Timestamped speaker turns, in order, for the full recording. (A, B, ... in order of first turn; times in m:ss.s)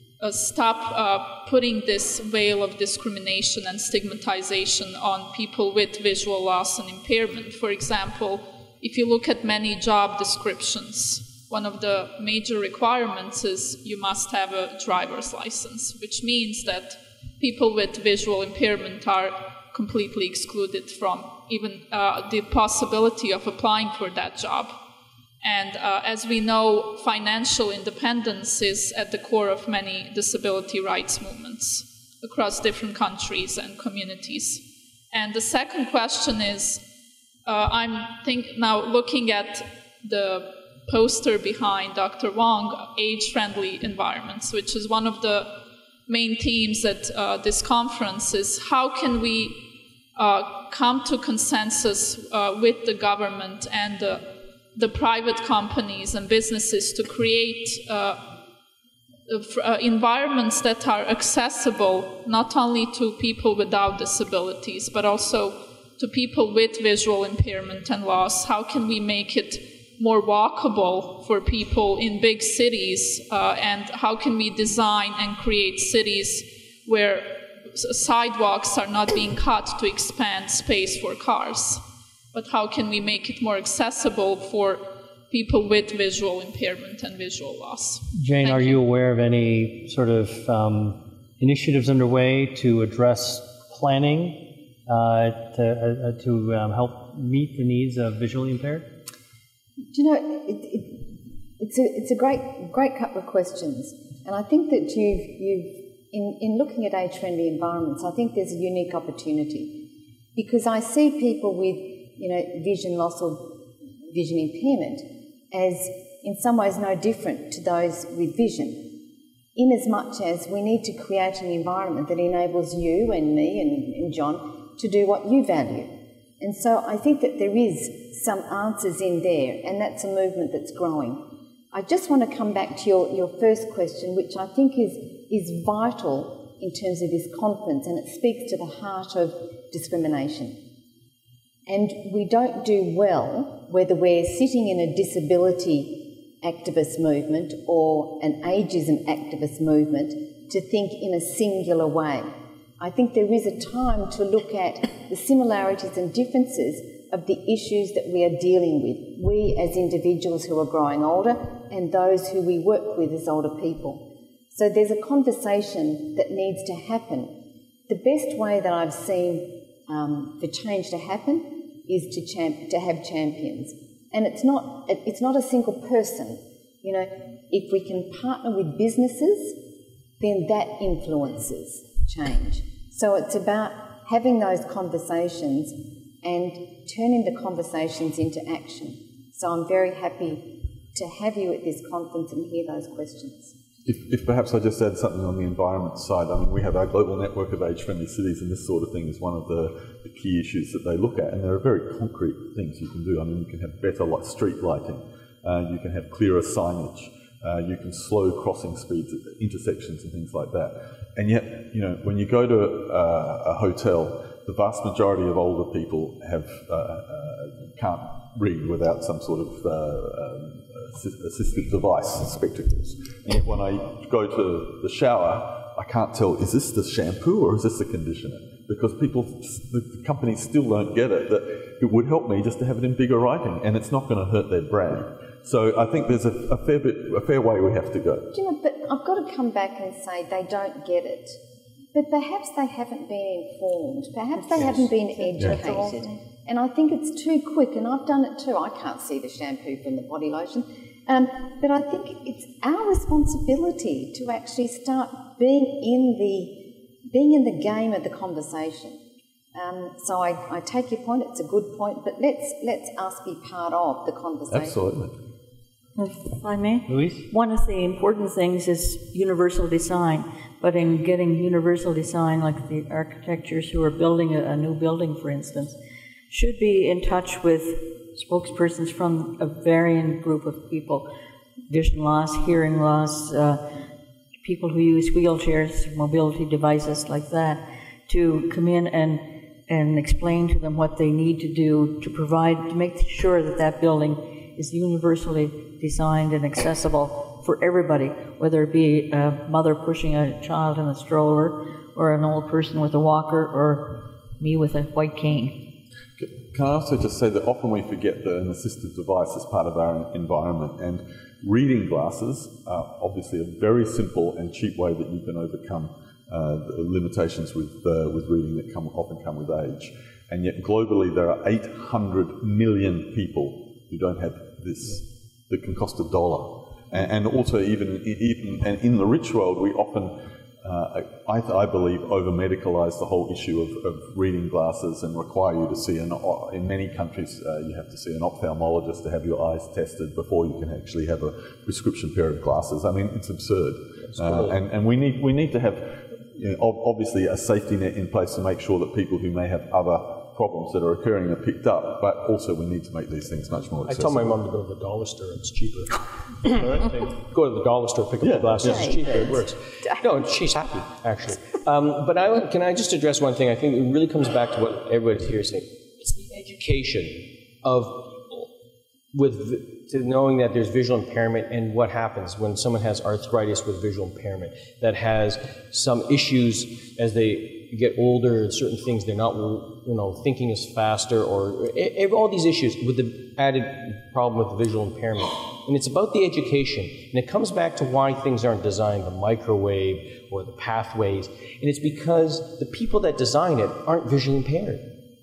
0:00.2-0:24.8 A
0:25.4-0:36.8 A
0:37.4-0:45.5 A
0:46.1-0:49.6 A
0:50.1-0:58.2 A
0:59.3-1:28.8 A
1:28.1-1:38.8 B
1:39.9-1:49.8 C
1:50.3-1:59.0 C
1:59.5-2:20.6 C
2:21.7-2:59.6 C
3:00.2-3:13.5 C
3:13.8-3:58.3 D
3:58.3-4:01.4 C
4:01.9-4:19.0 C
4:04.4-4:06.1 E
4:19.5-4:24.8 C
4:24.5-4:25.1 D
4:26.0-4:35.8 E
4:26.9-4:27.2 B
4:36.3-4:41.1 E
4:41.7-4:43.6 E
4:44.4-5:05.6 E
5:06.2-5:54.3 D
5:44.0-5:44.6 F
5:53.9-6:08.5 F
5:58.2-5:59.1 D
5:58.6-6:00.0 C
6:09.1-6:34.8 F